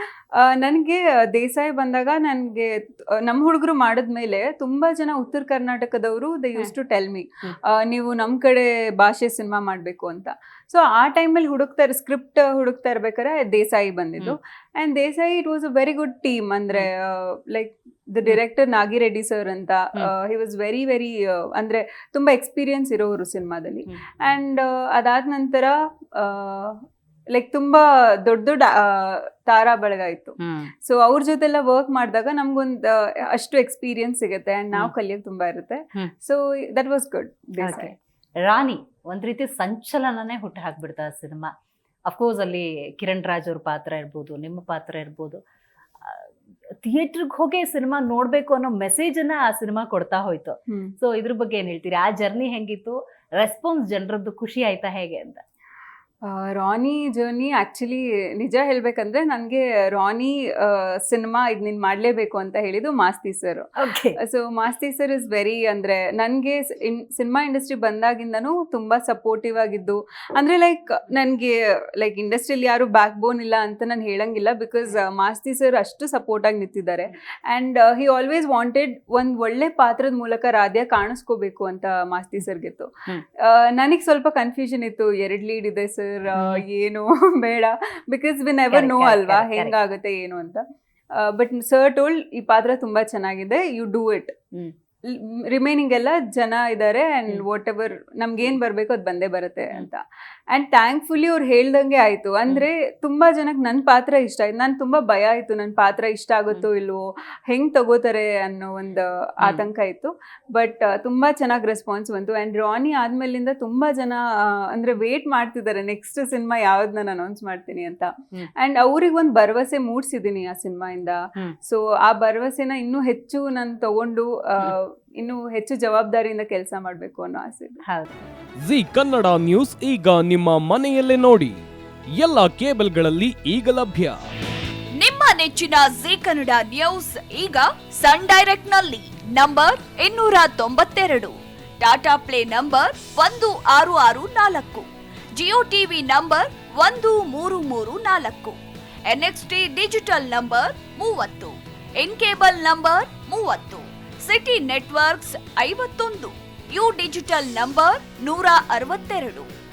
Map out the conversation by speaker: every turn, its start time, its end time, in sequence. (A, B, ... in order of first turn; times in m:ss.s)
0:00.4-0:37.9 A
0:30.4-0:30.7 B
0:37.6-0:41.5 B
0:42.1-0:45.4 B
0:46.8-0:55.4 B
0:50.7-0:50.9 A
0:56.2-1:03.7 A
1:03.8-1:04.2 B
1:04.2-1:30.6 A
1:26.4-1:26.6 B
1:28.7-1:29.8 B
1:31.2-1:34.3 A
1:35.1-2:07.8 A
2:07.9-2:08.1 B
2:08.6-2:11.6 C
2:12.2-2:14.2 C
2:15.0-2:39.5 D